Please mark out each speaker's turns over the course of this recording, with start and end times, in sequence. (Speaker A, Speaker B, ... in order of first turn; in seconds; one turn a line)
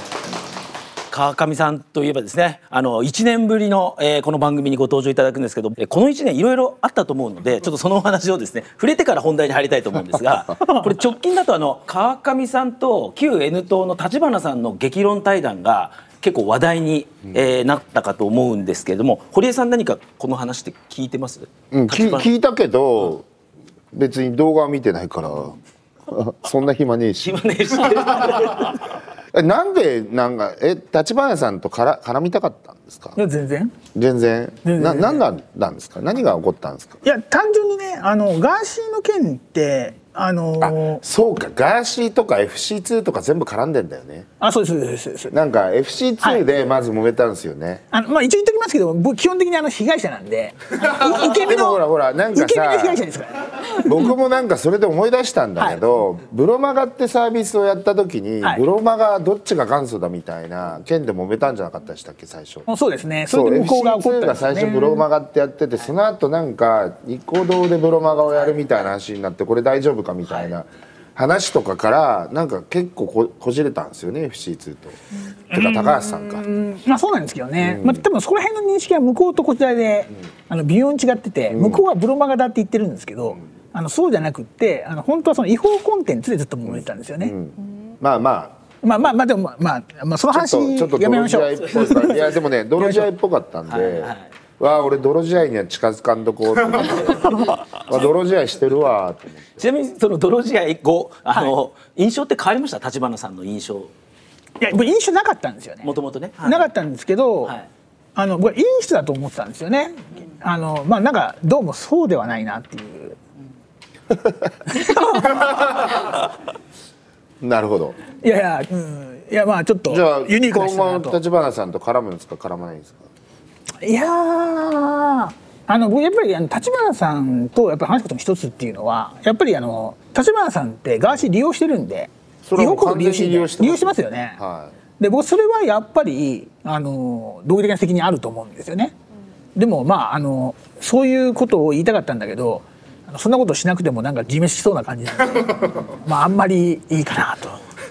Speaker A: 1.1-22.3
Speaker B: 10.6-10.9
Speaker C: 21.7-23.3
Speaker C: 23.9-27.4
Speaker A: 27.2-28.8
Speaker C: 29.3-33.2
Speaker B: 33.1-33.7
Speaker C: 33.9-37.0
Speaker B: 34.6-35.2
Speaker B: 37.0-41.0
Speaker C: 40.6-44.3
Speaker B: 44.4-45.3
Speaker C: 45.3-47.8
Speaker B: 46.2-46.5
Speaker B: 47.9-51.8
Speaker C: 51.0-53.0
Speaker B: 52.3-53.9
Speaker C: 53.7-62.7
Speaker B: 55.6-55.9
Speaker B: 62.7-65.0
Speaker C: 63.3-75.0
Speaker C: 75.5-76.4
Speaker B: 75.5-87.3
Speaker C: 77.6-78.0
Speaker C: 81.5-81.8
Speaker C: 86.7-88.6
Speaker B: 88.8-93.1
Speaker C: 90.3-99.6
Speaker A: 93.7-94.3
Speaker A: 99.6-103.9
Speaker B: 104.6-107.5
Speaker A: 105.8-106.7
Speaker B: 108.2-113.2
Speaker C: 114.1-114.4
Speaker B: 114.7-116.0
Speaker C: 117.4-118.0
Speaker B: 118.2-121.2
Speaker C: 119.9-123.1
Speaker B: 123.8-134.4
Speaker C: 132.4-134.8
Speaker B: 135.0-138.9
Speaker B: 139.5-147.6